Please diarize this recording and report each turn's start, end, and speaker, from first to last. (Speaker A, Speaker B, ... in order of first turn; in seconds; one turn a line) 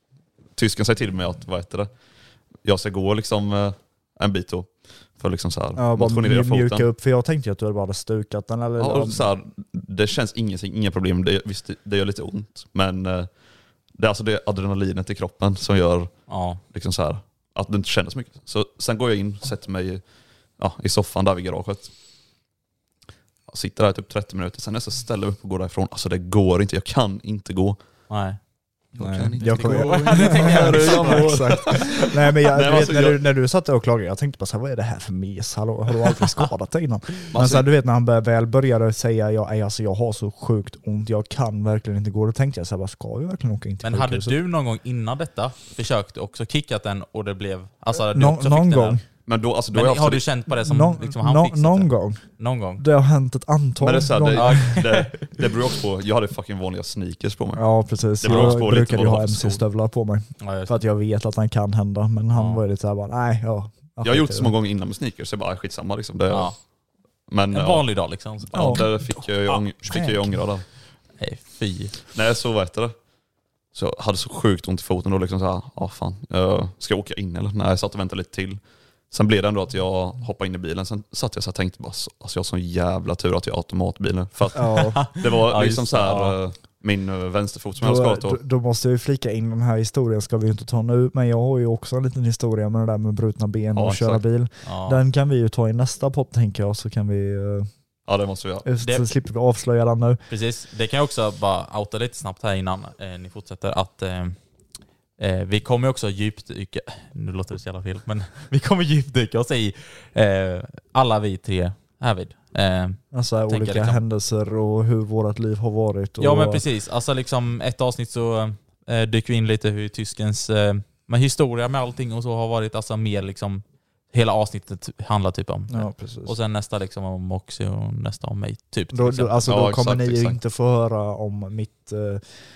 Speaker A: 0.6-1.9
Speaker A: 2.6-4.7
Speaker A: 5.2-6.9
Speaker B: 5.8-9.2
Speaker A: 8.8-13.3
Speaker A: 14.0-16.1
Speaker C: 16.3-16.6
Speaker A: 16.7-20.0
Speaker A: 20.6-21.9
Speaker A: 23.5-27.8
Speaker C: 28.1-28.4
Speaker A: 28.9-33.2
Speaker B: 28.9-44.4
Speaker C: 29.4-31.6
Speaker A: 37.3-37.7
Speaker C: 43.8-49.0
Speaker B: 48.0-49.0
Speaker A: 49.2-50.3
Speaker C: 49.7-52.8
Speaker B: 50.5-52.2
Speaker B: 52.8-54.8
Speaker A: 53.8-59.6
Speaker C: 54.3-55.3
Speaker B: 57.5-64.5
Speaker C: 58.3-58.6
Speaker C: 60.4-60.7
Speaker C: 62.3-62.6
Speaker A: 64.0-66.5
Speaker A: 67.3-67.9
Speaker C: 67.5-68.9
Speaker A: 68.5-70.6
Speaker B: 68.5-69.0
Speaker B: 69.8-70.4
Speaker C: 71.2-71.9
Speaker A: 72.1-72.9
Speaker A: 73.7-78.6
Speaker A: 79.1-88.4
Speaker B: 84.5-85.0
Speaker C: 84.7-86.3
Speaker B: 87.8-97.7
Speaker A: 93.7-94.2
Speaker C: 94.6-95.0
Speaker A: 98.1-98.7
Speaker B: 98.6-100.2
Speaker C: 98.8-99.0
Speaker C: 100.3-104.3
Speaker C: 105.2-114.0
Speaker B: 113.1-116.6
Speaker C: 116.2-129.3
Speaker B: 125.7-126.3
Speaker B: 128.9-132.2
Speaker A: 129.4-130.4